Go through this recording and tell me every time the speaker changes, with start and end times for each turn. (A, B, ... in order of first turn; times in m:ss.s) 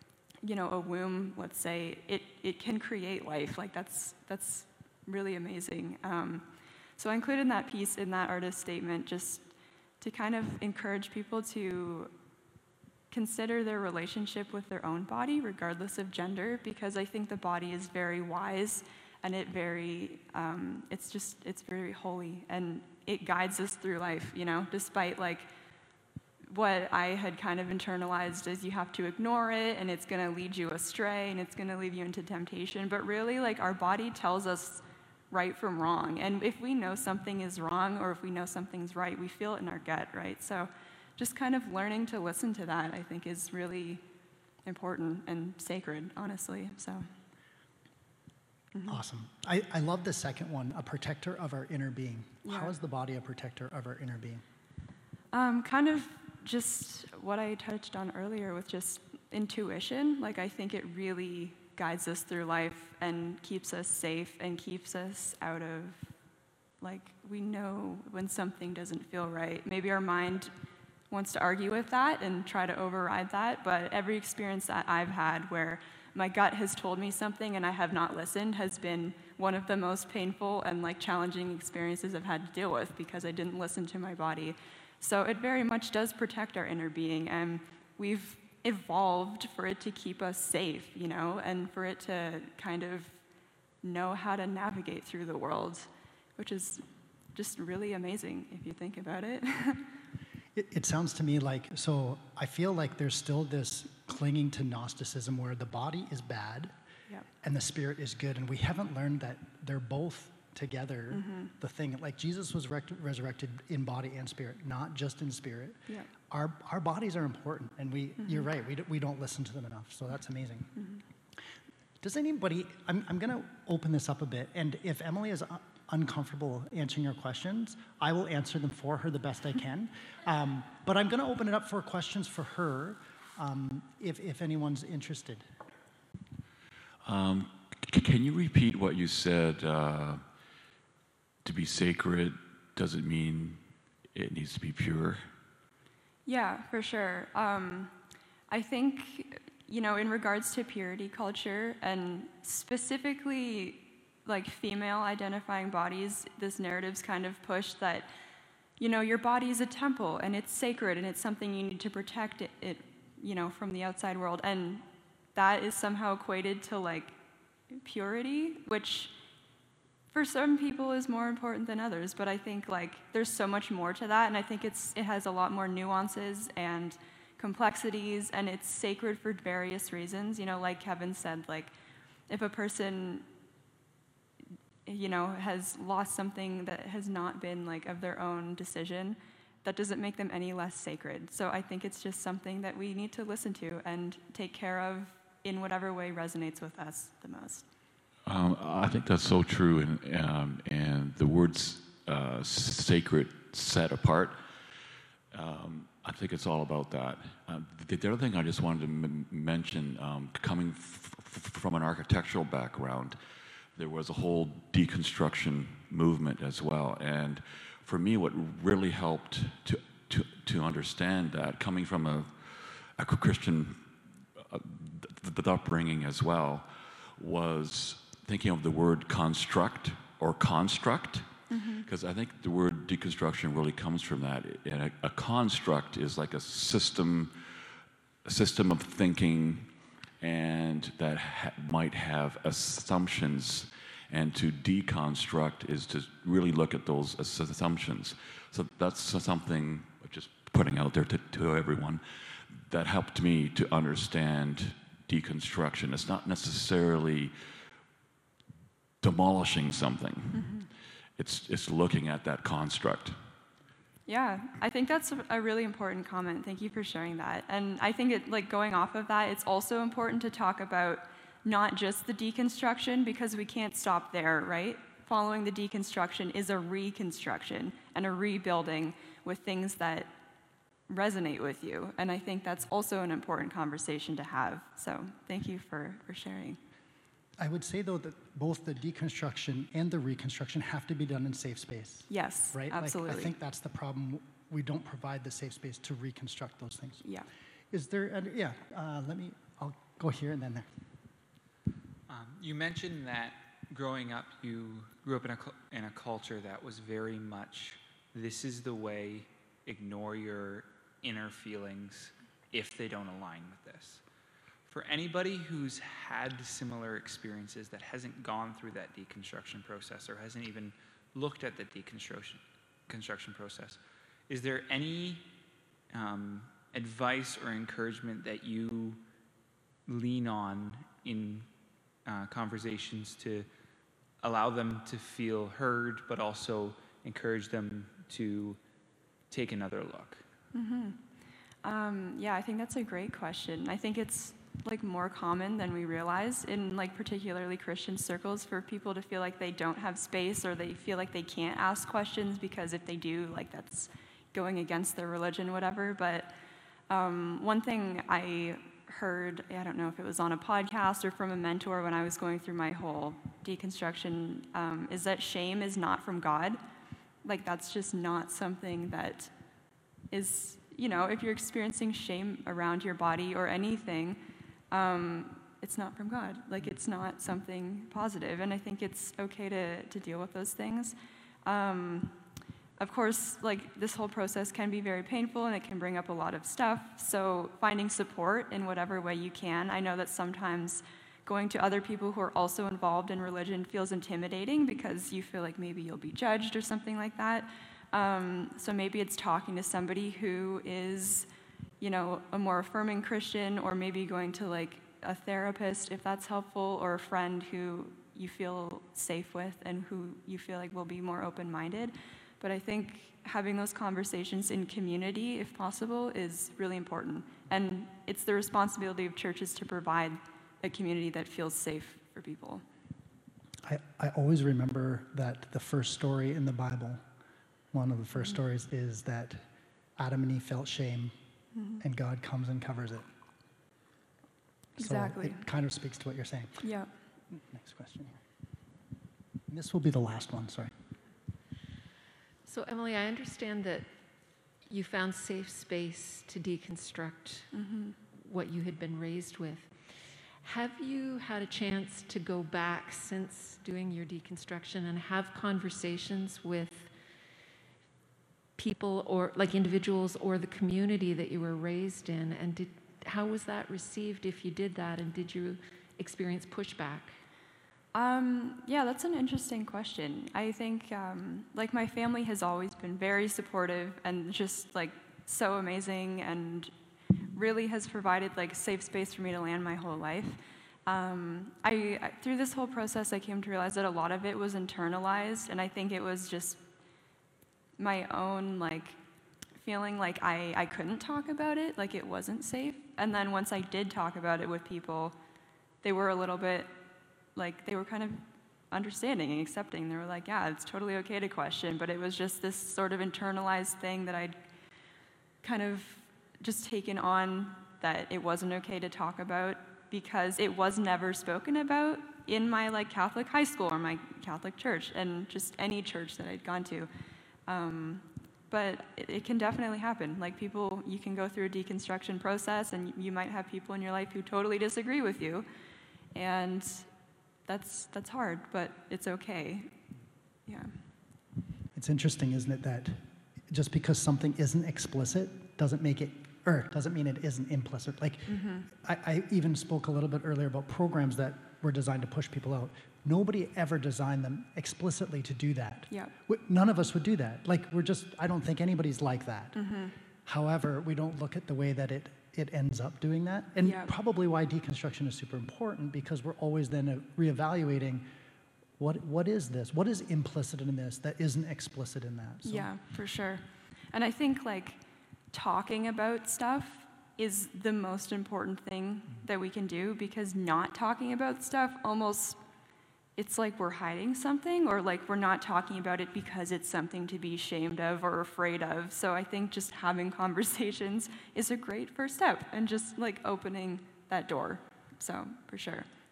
0:00.4-0:06.4 A
0:07.0-0:12.1 A
0:13.1-0:25.5 A
0:26.5-0:44.0 A
0:44.6-0:47.1 A
0:48.8-0:54.4 B
0:52.4-0:52.7 A
0:55.3-1:06.1 A
1:06.8-1:10.5 A
1:11.1-1:33.2 A
1:33.8-1:39.9 A
1:40.5-1:46.7 B
1:47.4-2:00.7 B
1:51.1-1:51.5 A
2:00.8-2:01.0 A
2:02.0-2:15.4 B
2:17.0-2:20.2 C
2:21.4-2:25.2 C
2:26.2-2:27.9 A
2:28.5-2:38.1 A
2:38.8-2:47.1 A
2:47.7-2:49.1 A
2:50.1-3:01.7 A
3:02.3-3:03.2 A
3:04.8-3:17.6 A
3:18.2-3:24.4 C
3:25.3-3:33.2 C
3:33.7-3:51.3 C
3:51.5-3:51.8 A
3:51.8-3:57.3 C
3:58.2-4:17.3 C
4:19.0-4:20.6 C
4:20.3-4:20.7 A
4:21.2-4:23.2 C
4:24.1-4:40.1 A
4:40.9-4:46.6 A
4:47.4-4:57.0 B
4:52.1-4:53.3 A
4:57.7-5:00.7 B
5:02.1-5:14.0 D
5:14.6-5:25.2 D
5:25.9-5:29.0 D
5:29.9-5:31.5 D
5:32.0-5:33.5 D
5:34.2-5:38.6 D
5:39.3-5:40.2 D
5:40.5-5:41.0 A
5:41.6-5:56.3 A
5:56.9-6:06.6 A
6:07.2-6:09.3 A
6:10.1-6:22.2 A
6:22.8-6:41.3 A
6:41.8-7:02.6 A
7:03.6-7:07.0 B
7:07.7-7:11.1 B
7:11.5-7:11.8 A
7:11.8-7:13.1 B
7:14.8-7:16.6 B
7:14.8-7:15.4 A
7:16.6-7:16.9 A
7:17.3-7:18.2 B
7:19.5-7:20.7 B
7:22.4-7:23.8 E
7:24.6-7:27.5 E
7:27.5-7:28.0 A
7:28.1-7:36.9 E
7:38.6-7:47.2 E
7:47.9-7:56.7 A
7:57.3-8:06.6 A
8:07.8-8:09.0 A
8:09.6-8:15.1 A
8:15.8-8:16.7 A
8:17.3-8:24.4 A
8:25.4-8:36.9 A
8:37.5-8:45.5 A
8:46.1-8:46.9 A
8:47.5-8:49.8 A
8:50.5-8:50.7 A
8:51.7-9:09.6 B
8:58.3-8:58.7 A
9:09.5-9:09.9 A
9:10.2-9:18.1 B
9:13.6-9:13.9 A
9:18.8-9:22.7 B
9:22.4-9:24.8 A
9:25.3-9:32.4 A
9:33.2-9:45.9 A